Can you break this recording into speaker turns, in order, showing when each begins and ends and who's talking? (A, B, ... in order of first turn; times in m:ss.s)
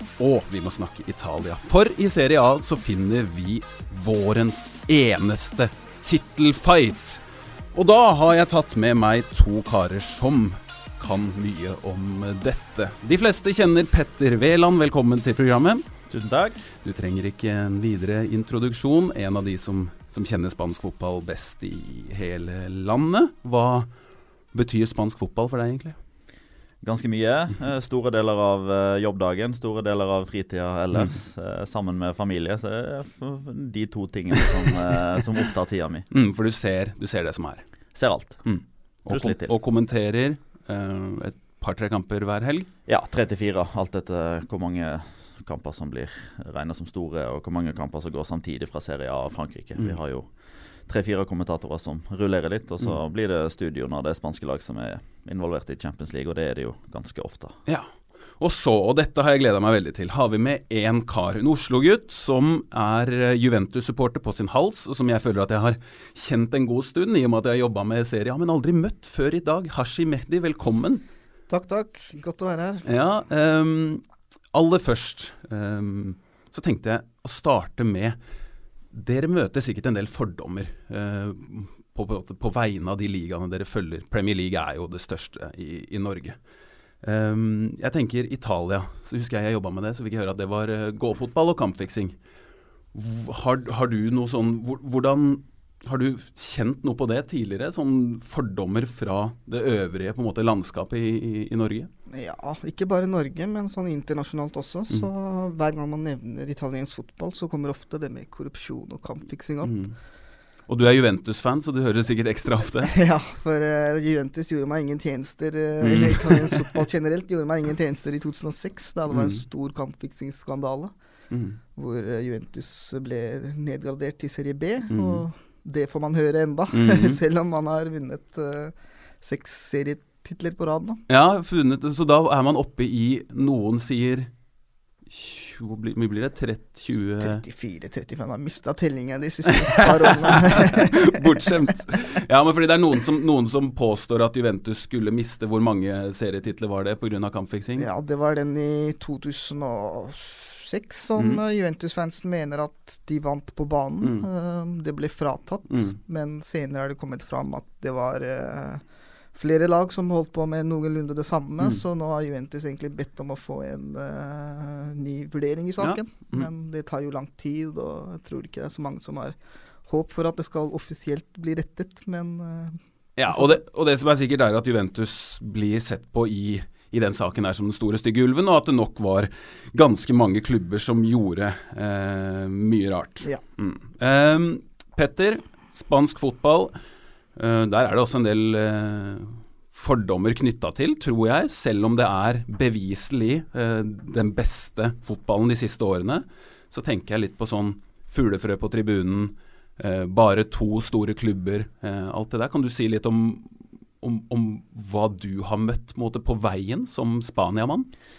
0:00.2-0:15.9 A
0:16.1-0:16.6 B
0:16.8-0:23.9 A
0:24.5-0:26.0 A
0:26.8-0:36.1 B
0:36.1-0:37.6 A
0:38.0-0:38.4 B
0:38.4-0:42.7 A
0:39.1-0:39.5 B
0:42.9-0:50.3 B
0:50.9-0:57.6 B
0:58.4-1:11.0 A
1:11.5-1:12.8 C
1:12.8-1:18.2 A
1:18.9-1:26.4 A
1:27.0-1:32.2 A
1:32.9-1:41.9 A
1:42.1-1:49.8 C
1:49.6-1:50.0 A
1:50.7-1:52.9 A
1:52.9-2:00.9 C
1:55.8-1:56.8 A
1:59.1-1:59.4 A
2:01.3-2:01.6 A
2:01.8-2:11.0 C
2:04.9-2:05.2 A
2:06.7-2:07.2 A
2:11.1-2:14.3 A
2:15.1-2:17.4 A
2:17.2-2:21.3 C
2:19.7-2:27.9 A
2:27.8-2:38.8 C
2:34.0-2:34.3 A
2:35.7-2:36.0 A
2:39.3-2:52.8 C
2:45.8-2:46.5 A
2:53.2-3:06.7 A
3:07.4-3:27.9 A